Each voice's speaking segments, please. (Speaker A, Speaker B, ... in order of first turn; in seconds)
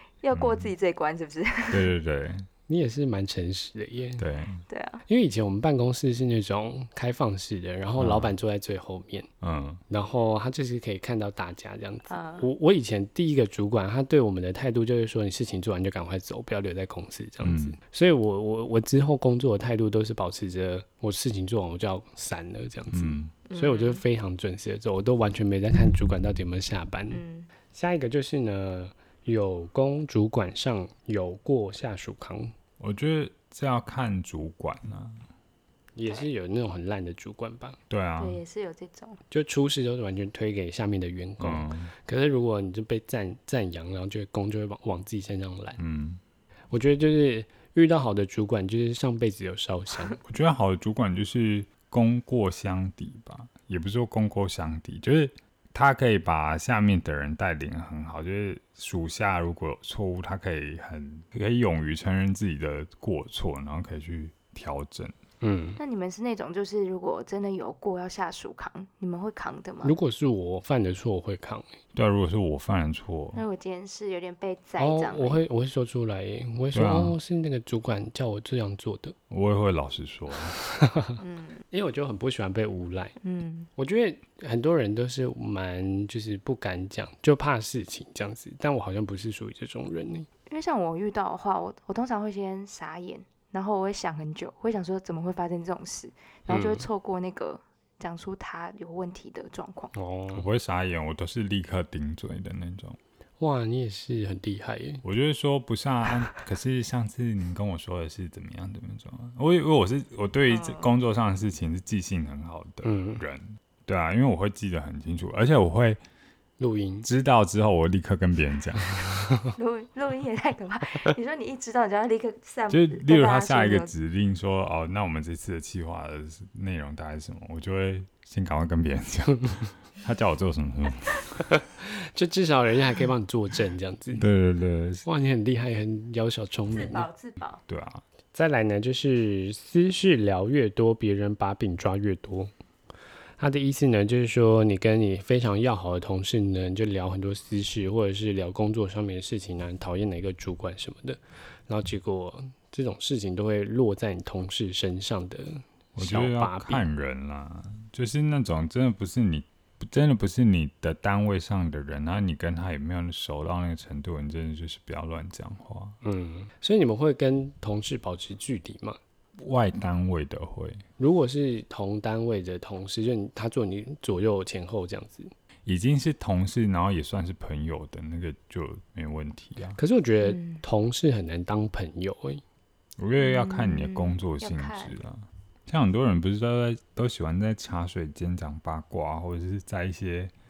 Speaker A: 0.2-1.9, 4.7-5.0, 12.1-12.5, 23.5-24.0, 27.1-27.5, 38.2-39.2, 65.8-69.9, 73.3-75.4, 81.2-81.6, 83.2-83.7, 90.5-99.9, 110.5-110.9, 119.5-123.9, 136.7-137.6, 180.2-180.6, 183.2-184.9
Speaker B: 0.3-0.7, 1.7-2.5, 4.2-4.6, 8.0-8.3, 9.4-9.8, 17.4-17.8, 22.9-23.3, 32.8-35.2, 37.9-38.4, 41.4-41.9, 45.8-46.2, 50.2-65.2, 71.9-73.4, 76.7-77.2, 79.3-80.6, 100.3-103.0, 105.0-116.0, 117.0-119.2, 122.7-131.5, 134.1-135.1, 137.7-138.0, 155.9-165.9, 169.4-170.8, 175.7-179.8, 183.0-190.3
Speaker C: 2.7-4.2, 5.1-9.3, 9.9-32.5, 36.0-37.8, 39.3-45.8, 46.7-50.2, 65.4-65.8, 69.8-71.7, 74.8-79.1, 80.6-81.2, 81.7-83.2, 83.8-90.3, 96.5-96.8, 99.9-100.5, 103.4-105.0, 112.8-113.2, 116.6-117.1, 131.5-134.2, 135.0-137.1, 138.3-142.5, 143.4-156.8, 166.0-169.0, 171.0-175.3, 179.8-182.4